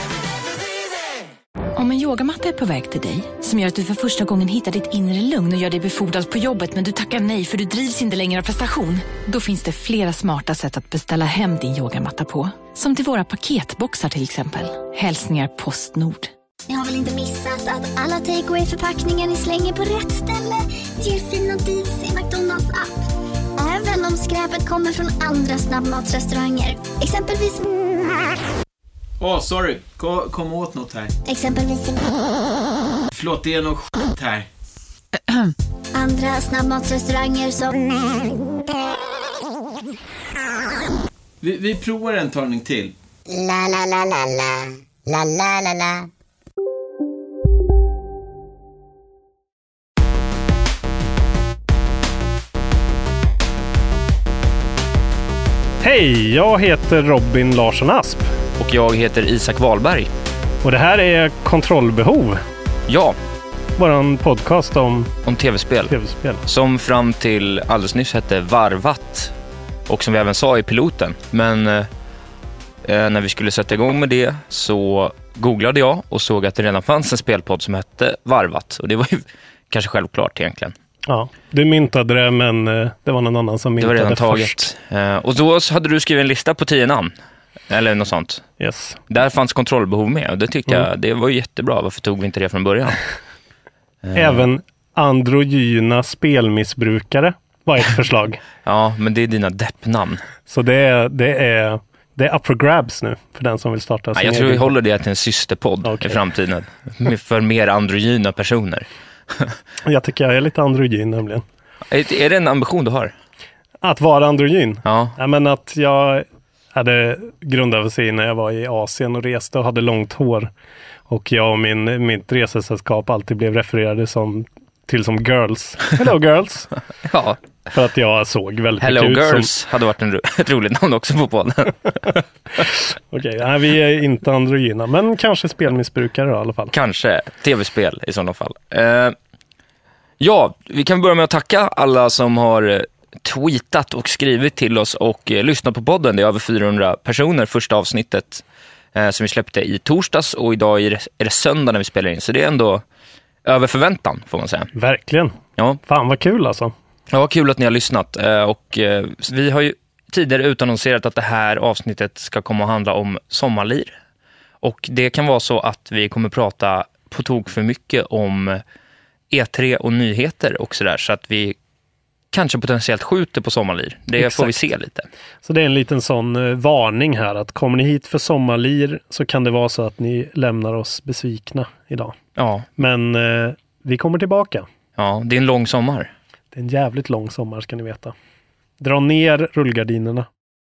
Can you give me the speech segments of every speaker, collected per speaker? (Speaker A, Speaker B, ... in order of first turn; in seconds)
Speaker A: 1.8-16.3
Speaker B: 16.7-27.8, 31.2-32.2, 35.9-38.2
Speaker C: 29.2-31.1, 33.1-34.5, 41.4-42.9
Speaker D: 43.3-46.1
Speaker E: 55.8-58.3, 60.6-62.4, 63.8-65.1, 65.9-66.4, 81.1-84.7, 88.6-89.0, 94.1-98.4, 100.5-104.8, 105.8-106.2, 109.8-111.4, 113.8-120.5, 121.1-126.7, 127.7-129.5, 132.7-136.7, 154.8-156.7, 174.2-174.7, 175.4-182.2, 182.8-184.7, 186.5-188.1, 188.8-190.3
Speaker F: 58.6-60.1, 62.9-63.2, 65.2-69.3, 69.9-71.9, 72.8-80.8, 83.8-87.1, 87.7-88.5, 89.1-93.0, 94.0-94.5, 98.6-100.2, 104.2-109.6, 111.9-113.1, 114.8-115.2, 127.0-127.4, 128.8-132.0, 136.7-139.2, 140.2-148.4, 148.9-152.8, 153.4-154.7, 157.1-164.0, 164.6-168.6, 169.3-171.6, 172.3-175.1, 182.4-182.7, 185.0-186.1